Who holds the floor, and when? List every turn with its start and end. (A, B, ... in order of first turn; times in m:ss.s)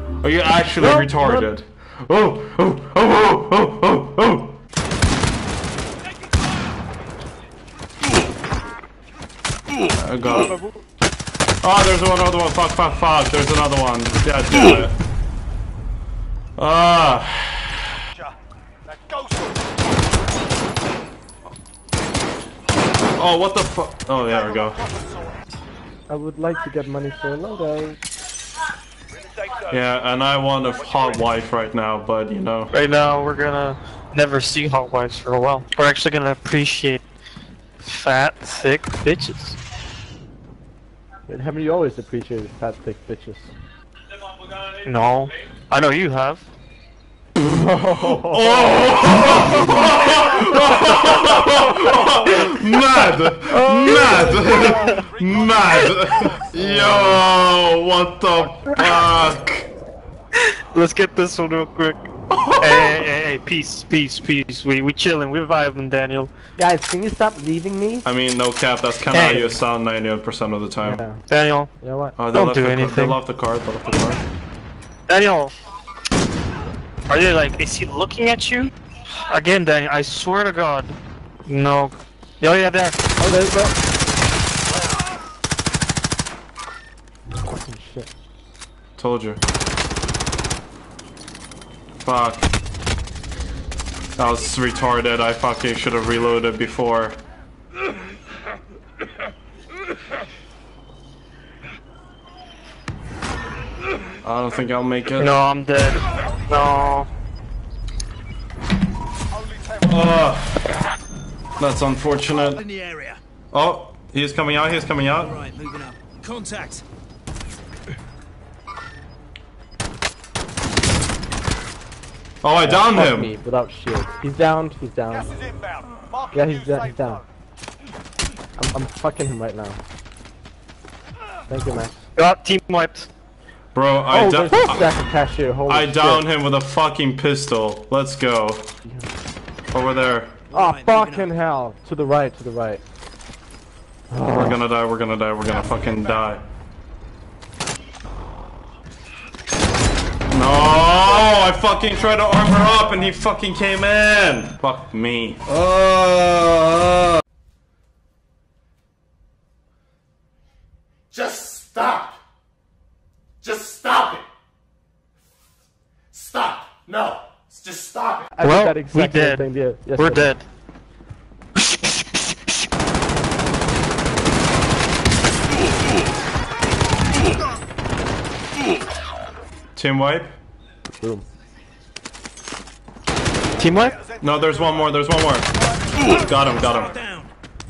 0:00.2-0:04.6 A
0:00.8-0:01.5 B
0:10.0-0:10.5 A
0:11.6-0:14.9 A
0:16.6-0:17.9 A
0:23.2-0:24.8 A
0:26.1-0:28.0 B
0:29.7-0:32.7 A
0:32.7-0:37.0 C
0:37.8-0:39.6 C
0:41.3-0:43.5 B
0:44.8-0:46.5 C
0:47.4-0:50.5 B
0:48.0-0:59.7 A
0:53.5-0:54.5 B
0:56.6-0:57.2 B
1:00.4-1:06.3 C
1:02.3-1:02.6 A
1:06.6-1:08.1 B
1:08.0-1:11.0 A
1:09.1-1:09.5 C
1:10.8-1:11.2 B
1:11.3-1:11.7 C
1:11.8-1:12.2 B
1:12.2-1:14.2 A
1:12.3-1:13.2 C
1:15.1-1:15.5 C
1:17.1-1:18.7 C
1:19.3-1:23.0 C
1:23.2-1:23.8 B
1:27.6-1:28.1 B
1:29.0-1:29.4 A
1:32.0-1:32.5 A
1:34.2-1:37.2 A
1:44.2-1:45.4 A
1:45.2-1:47.1 C
1:49.9-1:50.7 A
1:51.6-1:52.6 A
1:52.6-1:53.2 D
1:53.5-1:55.4 A
1:55.3-1:56.8 D
2:02.4-2:03.3 A
2:02.6-2:05.4 B
2:06.3-2:07.2 B
2:08.6-2:09.8 B
2:11.5-2:12.1 B
2:12.2-2:13.1 C
2:13.7-2:14.9 A
2:14.1-2:16.3 B
2:15.7-2:18.7 A
2:18.8-2:19.1 B
2:19.7-2:20.3 A
2:20.5-2:22.8 B
2:20.6-2:21.2 D
2:24.1-2:24.6 B
2:24.3-2:26.4 A
2:30.3-2:37.2 A
2:41.1-2:42.2 E
2:43.4-2:44.2 E
2:46.1-2:48.2 E
2:48.3-2:50.3 B
2:48.4-2:50.4 C
2:51.6-2:52.5 C
2:59.8-3:00.3 A
3:01.0-3:01.2 B
3:03.6-3:04.0 C
3:04.2-3:07.0 A
3:07.0-3:07.3 D